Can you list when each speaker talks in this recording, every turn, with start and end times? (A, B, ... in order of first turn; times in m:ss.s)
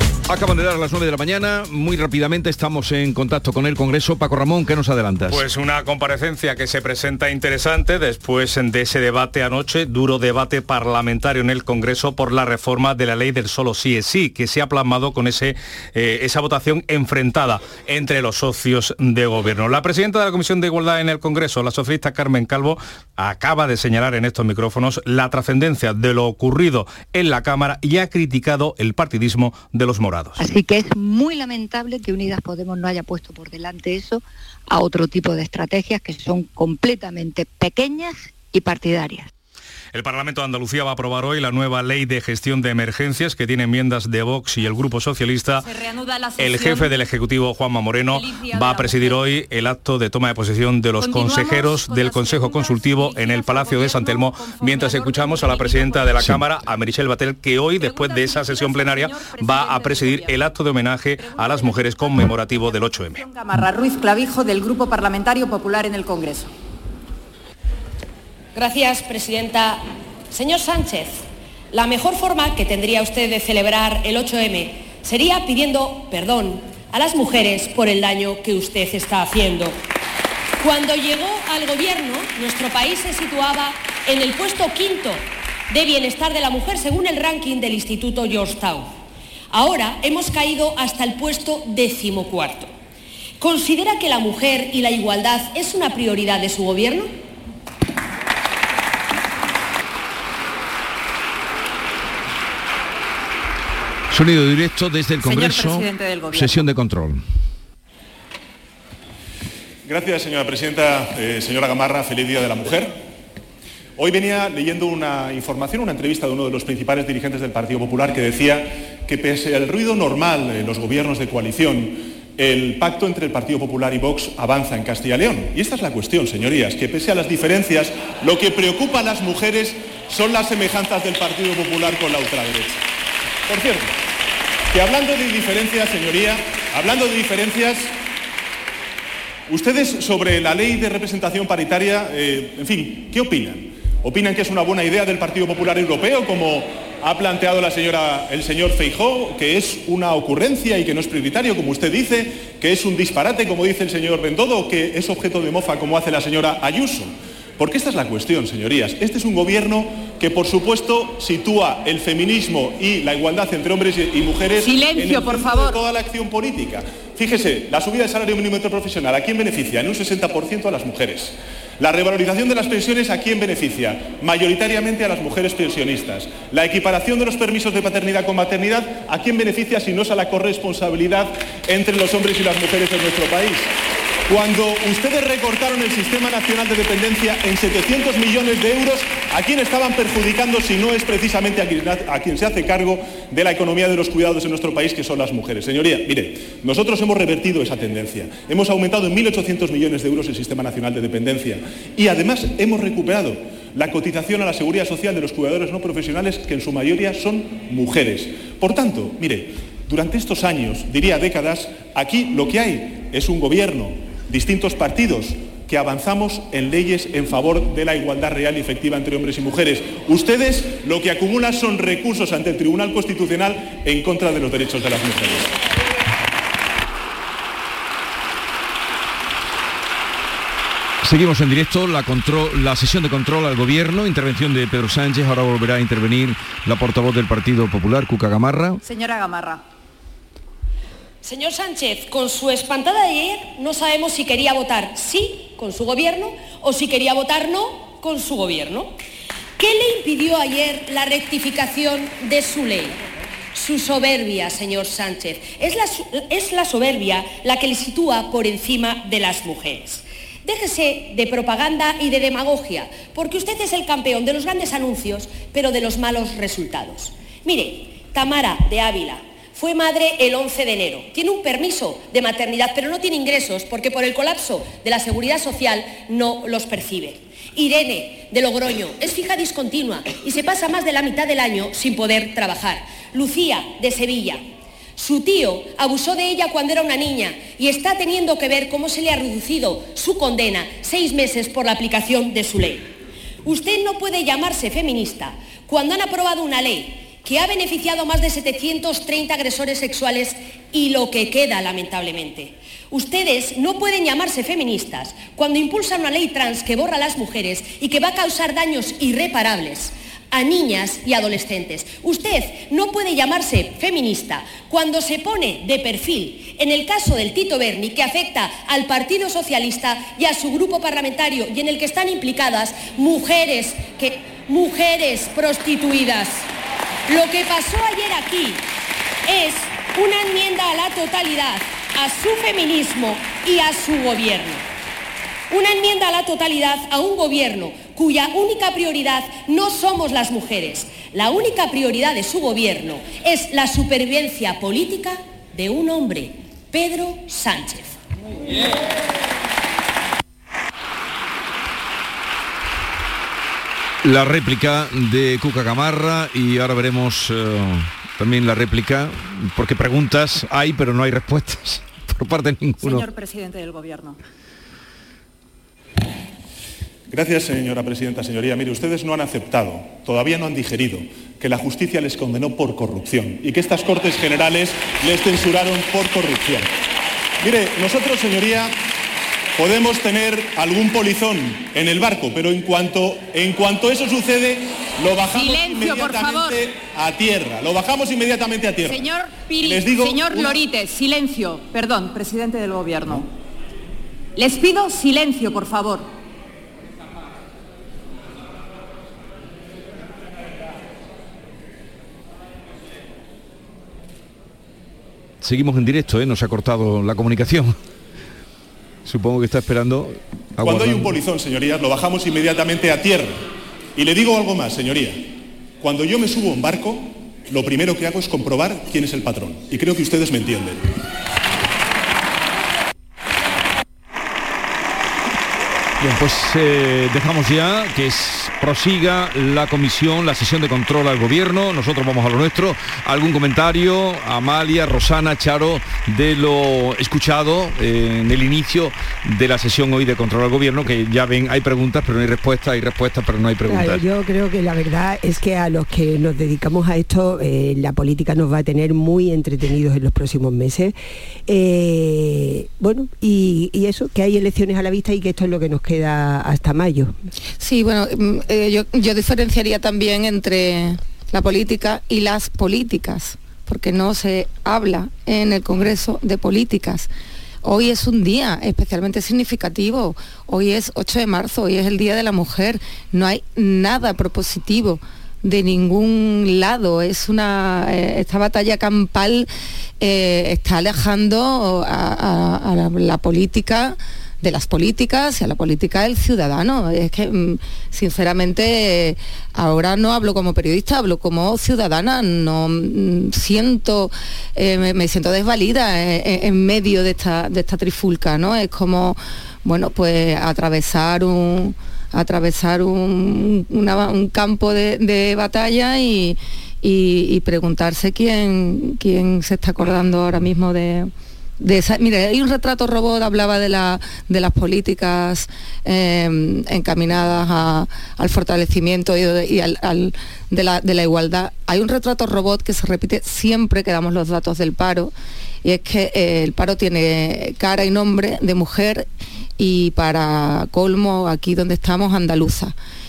0:00.3-0:05.5 A
0:05.3-0:30.4 B
0:30.4-0:39.3 C
0:39.9-0:45.7 B
0:45.6-0:46.9 D
0:46.4-1:03.2 B
0:48.1-0:49.2 D
0:51.0-0:56.2 D
0:57.8-1:00.4 D
1:01.2-1:06.5 D
1:08.6-1:19.8 E
1:20.6-1:28.9 E
1:29.5-1:32.7 E
1:33.4-1:37.1 E
1:44.1-1:47.2 A
1:45.2-1:46.7 D
1:49.8-1:53.0 F
1:54.0-2:12.8 F
2:13.5-2:13.9 F
2:14.7-2:17.9 F
2:19.5-3:03.7 F
2:44.6-2:45.8 D
3:04.3-3:45.5 F
3:51.0-3:58.8 A
3:58.8-3:59.6 D
4:01.2-4:09.0 E
4:09.6-4:13.0 E
4:13.5-4:44.4 E
4:45.0-4:52.9 E
4:53.4-5:26.5 E
5:27.1-5:28.6 E
5:29.3-5:34.6 E
5:35.5-5:48.0 E
5:54.0-6:03.1 A
6:02.8-6:04.2 D
6:07.1-6:16.7 F
6:17.4-6:18.8 F
6:19.6-6:29.1 F
6:25.2-6:26.6 D
6:28.8-6:33.3 D
6:29.6-6:30.6 F
6:34.4-6:36.1 D
6:45.4-6:47.8 A
6:49.0-6:51.2 A
6:50.6-7:00.8 F
7:06.0-7:24.0 A
7:23.7-7:31.0 G
7:31.5-7:37.2 G
7:37.6-7:47.1 H
7:47.6-7:59.5 H
8:00.0-8:45.1 H
8:45.6-8:49.1 H
8:49.6-8:52.7 H